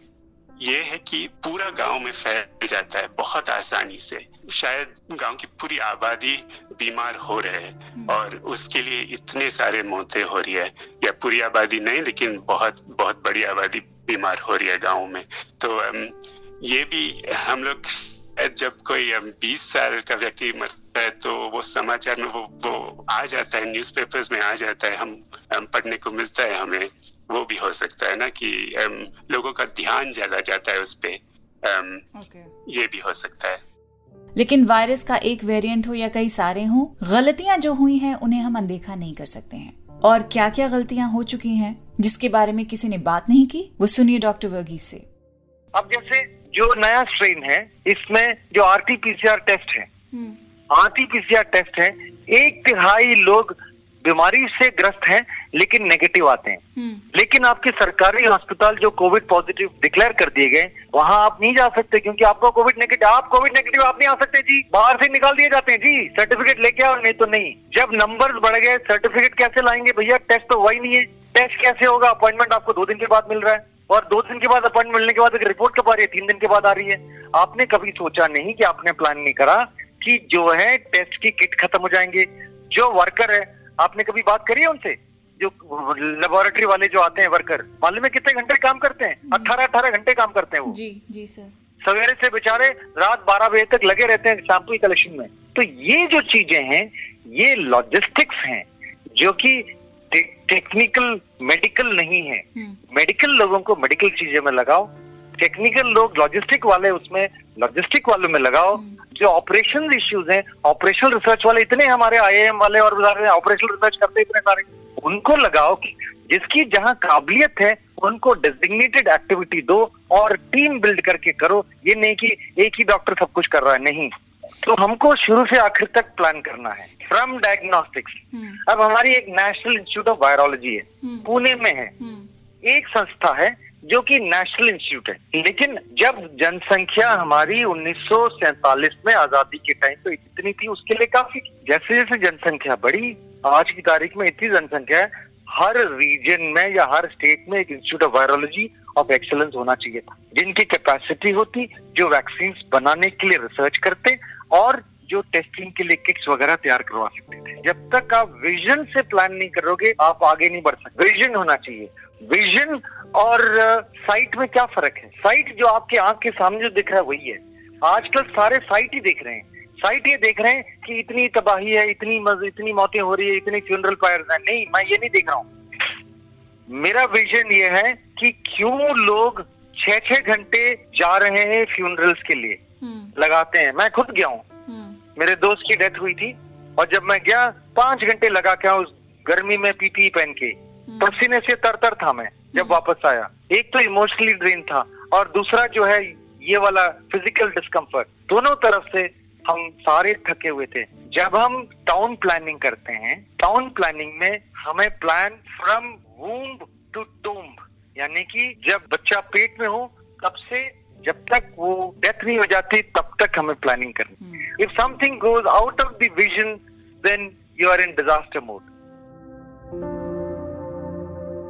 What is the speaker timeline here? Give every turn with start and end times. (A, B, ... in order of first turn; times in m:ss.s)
0:00.6-0:32.1 A
0:08.0-0:08.2 B
0:32.2-0:32.5 B
0:32.7-0:33.6 A
0:34.4-0:45.1 B
0:45.7-0:49.9 C
0:50.1-0:50.4 B
0:50.7-0:56.6 C
0:56.8-0:57.0 B
0:57.1-1:30.8 C
1:29.3-1:29.6 B
1:30.7-1:31.5 B
1:31.8-2:11.9 C
1:42.6-1:42.8 B
1:48.7-1:49.0 B
2:08.3-2:08.6 B
2:11.0-2:11.3 B
2:12.0-2:12.3 B
2:12.6-2:55.5 C
2:56.7-3:02.6 C
3:02.8-3:03.1 B
3:03.2-3:04.4 C
3:04.7-3:05.0 B
3:05.2-3:38.7 C
3:10.9-3:11.2 B
3:12.5-3:12.8 B
3:34.2-3:34.5 B